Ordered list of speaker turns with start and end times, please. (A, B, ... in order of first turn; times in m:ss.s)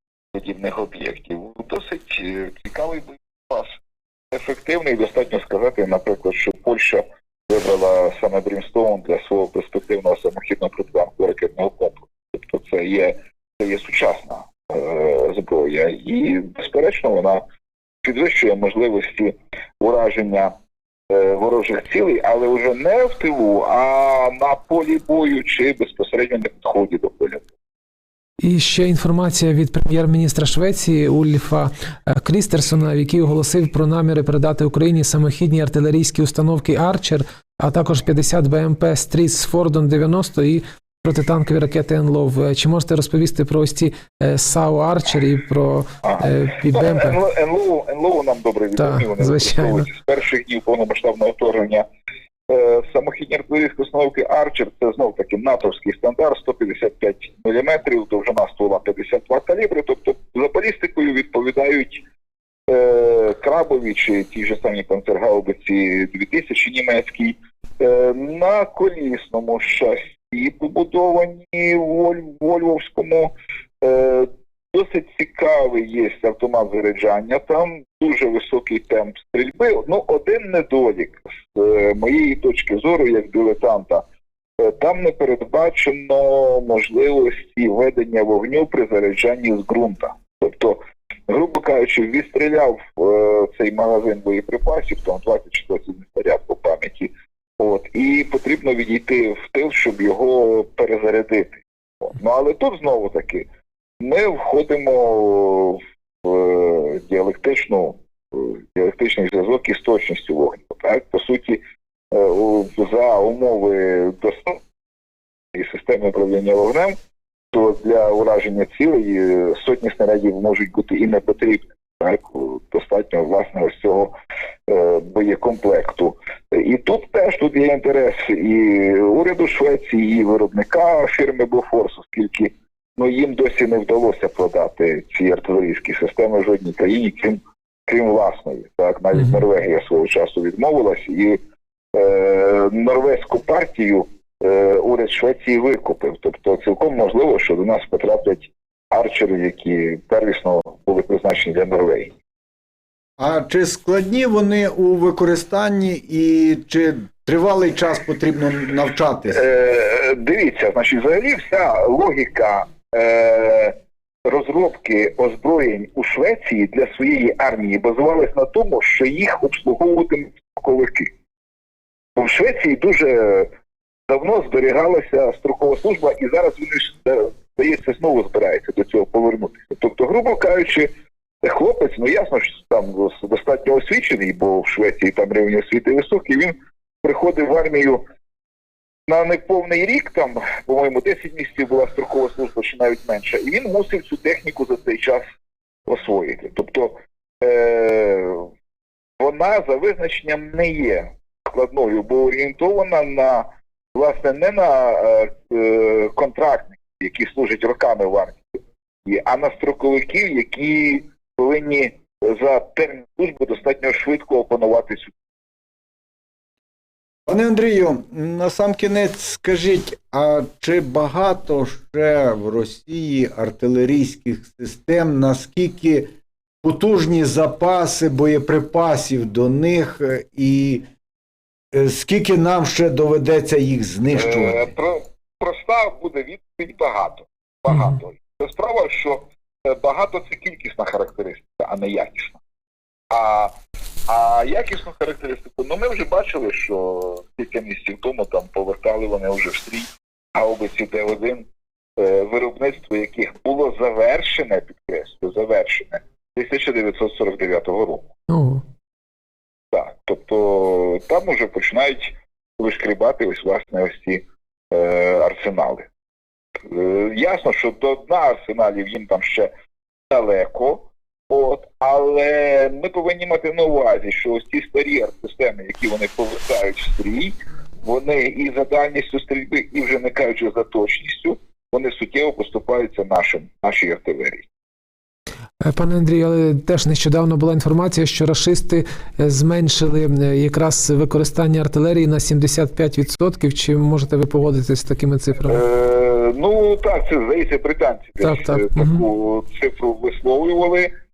0:00.3-0:03.8 A
0:04.3-0:17.4 A
0:18.0-0:20.5 A
0:21.1-0:27.4 A
0:28.4-0:47.2 B
0:46.0-0:51.9 A
0:48.8-0:49.9 B
0:52.5-1:02.0 A
1:02.7-1:24.0 A
1:24.6-1:43.5 A
1:44.0-1:54.6 A
1:55.5-1:57.0 A
1:57.5-2:04.1 A
2:04.7-2:21.4 A
2:21.9-2:32.1 A
2:33.2-2:39.4 C
2:39.3-2:43.7 A
2:44.2-2:51.1 A
2:52.2-2:53.5 A
2:54.1-3:00.9 A
3:01.4-3:08.0 A
3:09.1-3:15.2 A
3:15.8-3:18.5 A
3:19.2-3:35.1 A
3:37.3-3:46.1 C
3:46.6-3:50.8 C
3:51.7-3:54.7 C
3:54.1-4:02.4 A
3:57.7-3:58.0 B
4:03.1-4:03.5 A
4:04.1-4:18.1 A
4:18.3-4:18.6 B
4:19.7-4:25.9 A
4:26.6-4:29.5 A
4:30.1-4:44.5 A
4:45.6-4:55.6 B
4:55.5-5:00.9 A
4:58.2-4:59.0 B